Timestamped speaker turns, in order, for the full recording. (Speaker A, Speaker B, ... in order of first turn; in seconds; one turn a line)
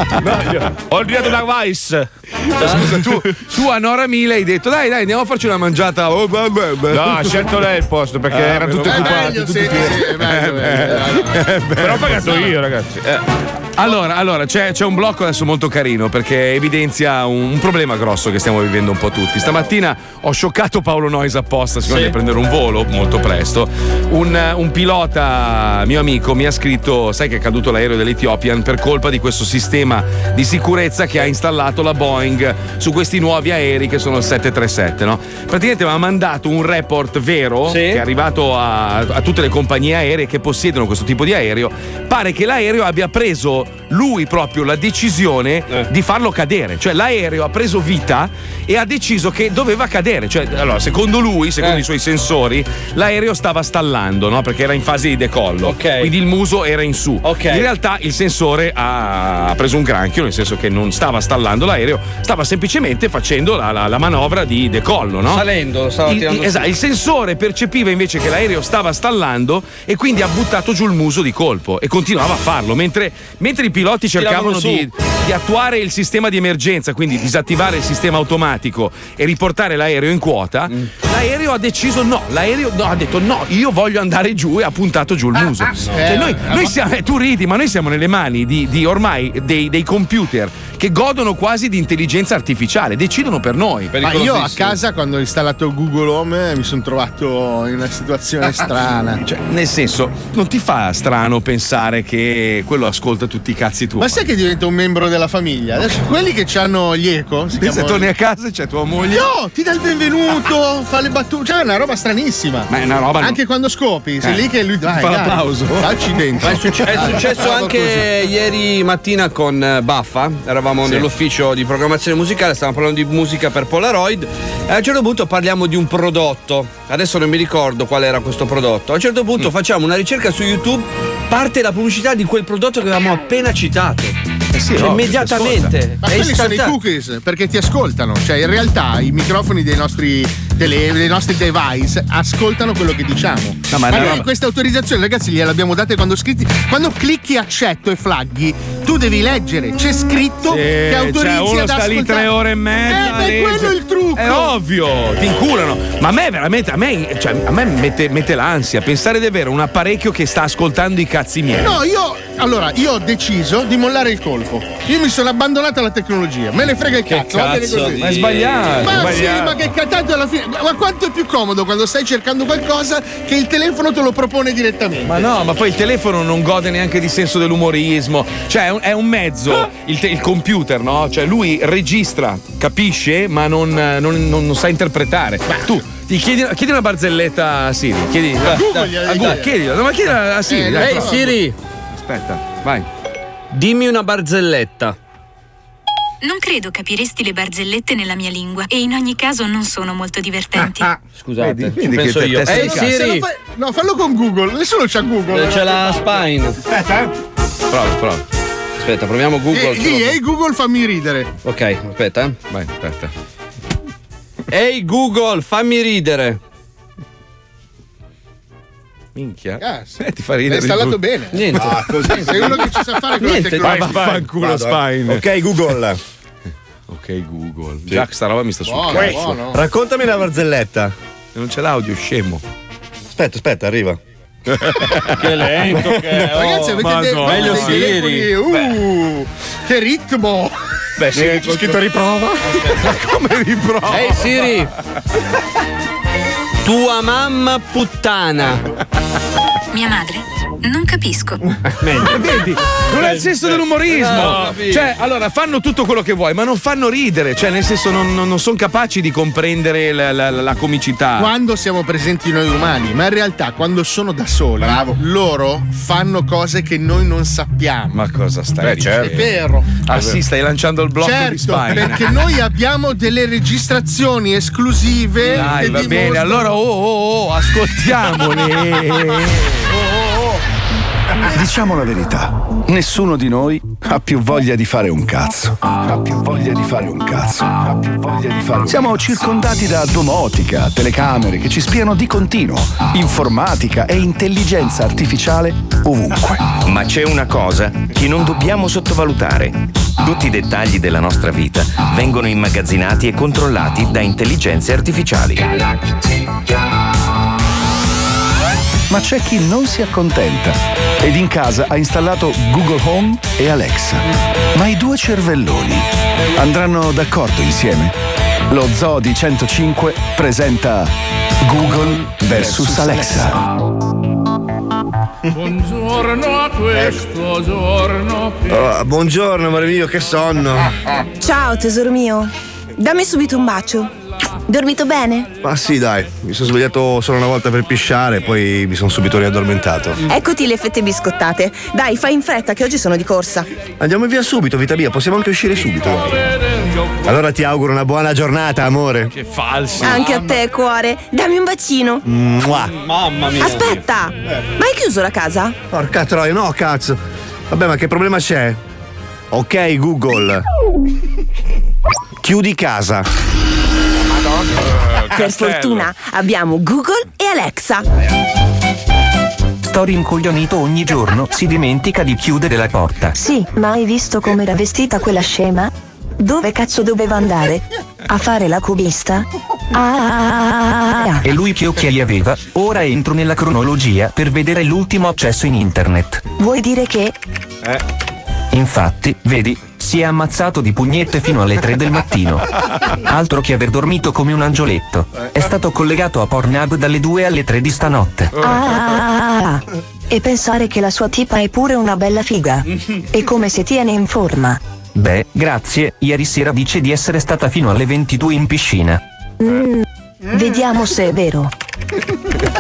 Speaker A: 0.2-3.1
Speaker B: 2.6-7.7
Speaker A: 6.9-10.1
Speaker B: 8.3-12.5
Speaker C: 8.8-11.4
Speaker A: 11.8-13.2
Speaker B: 13.8-65.5
Speaker A: 21.9-22.1
Speaker D: 37.7-38.0
Speaker D: 55.6-56.1
Speaker D: 57.2-57.7
Speaker D: 65.3-66.7
Speaker B: 66.0-94.2
Speaker D: 74.2-74.9
Speaker C: 85.9-86.8
Speaker D: 93.9-94.8
Speaker C: 94.0-99.2
Speaker B: 99.2-104.2
Speaker C: 104.0-108.1
Speaker B: 107.6-109.3
Speaker C: 109.1-118.1
Speaker B: 112.7-113.4
Speaker B: 114.2-115.9
Speaker D: 116.6-134.2
Speaker B: 134.5-135.8
Speaker D: 134.8-136.8
Speaker C: 136.0-152.3
Speaker B: 143.7-144.3
Speaker B: 150.5-161.8
Speaker C: 152.9-154.5
Speaker C: 161.6-168.1
Speaker A: 167.2-169.5
Speaker D: 167.7-168.5
Speaker B: 168.0-169.3
Speaker C: 168.8-175.2
Speaker B: 175.1-191.4
Speaker C: 188.4-189.5
Speaker C: 190.5-191.3
Speaker D: 190.8-191.5
Speaker B: 191.9-192.9
Speaker D: 193.5-195.0
Speaker E: 196.2-201.0
Speaker D: 201.1-203.3
Speaker B: 201.4-203.1
Speaker C: 202.5-206.1
Speaker D: 205.3-206.6
Speaker B: 207.7-208.2
Speaker D: 208.8-210.2
Speaker C: 209.5-211.3
Speaker D: 211.4-212.4
Speaker B: 212.5-213.1
Speaker D: 214.5-216.4
Speaker B: 219.2-221.0
Speaker C: 219.6-224.0
Speaker D: 221.3-222.2
Speaker F: 221.6-222.6
Speaker D: 223.2-223.6
Speaker F: 223.6-226.0
Speaker B: 223.9-225.2
Speaker B: 226.9-229.4
Speaker C: 228.7-229.6
Speaker F: 229.0-230.9
Speaker B: 231.3-232.4
Speaker F: 233.2-234.0
Speaker B: 234.5-235.9
Speaker D: 235.2-235.9
Speaker A: 235.3-236.7
Speaker C: 236.2-240.6
Speaker D: 236.4-236.7
Speaker B: 236.7-237.9
Speaker D: 237.2-238.3
Speaker F: 241.1-242.6
Speaker A: 241.2-241.8
Speaker B: 242.7-244.4
Speaker D: 244.1-244.6
Speaker A: 244.2-244.7
Speaker D: 246.7-248.6
Speaker E: 249.7-251.4
Speaker D: 251.8-252.2
Speaker B: 252.0-261.3
Speaker D: 253.0-254.9
Speaker A: 254.1-254.6
Speaker C: 261.2-268.0
Speaker B: 267.9-269.3
Speaker A: 268.6-269.3
Speaker C: 269.0-269.7
Speaker B: 269.8-272.2
Speaker C: 271.0-276.5
Speaker B: 275.3-279.6
Speaker G: 281.3-296.6
Speaker H: 296.9-299.5
Speaker H: 300.0-305.5
Speaker G: 308.9-317.9
Speaker G: 318.5-323.4
Speaker F: 322.5-323.0
Speaker F: 326.6-327.2
Speaker F: 328.4-330.7
Speaker I: 331.2-333.9
Speaker I: 334.5-335.3
Speaker F: 335.4-340.0
Speaker I: 340.1-343.5
Speaker F: 343.8-346.2
Speaker F: 347.0-349.1
Speaker B: 349.1-350.1
Speaker I: 349.8-352.0
Speaker F: 352.1-352.7
Speaker D: 352.7-353.8
Speaker I: 353.3-355.6
Speaker F: 355.7-357.0
Speaker F: 357.5-358.6
Speaker F: 359.3-360.4
Speaker F: 362.2-363.1
Speaker B: 364.8-365.9
Speaker I: 365.1-367.9
Speaker J: 369.6-373.2
Speaker K: 373.1-381.2
Speaker J: 381.2-386.3
Speaker K: 386.4-387.1
Speaker J: 388.5-398.4
Speaker K: 398.4-404.6
Speaker J: 404.9-409.0
Speaker K: 409.4-411.5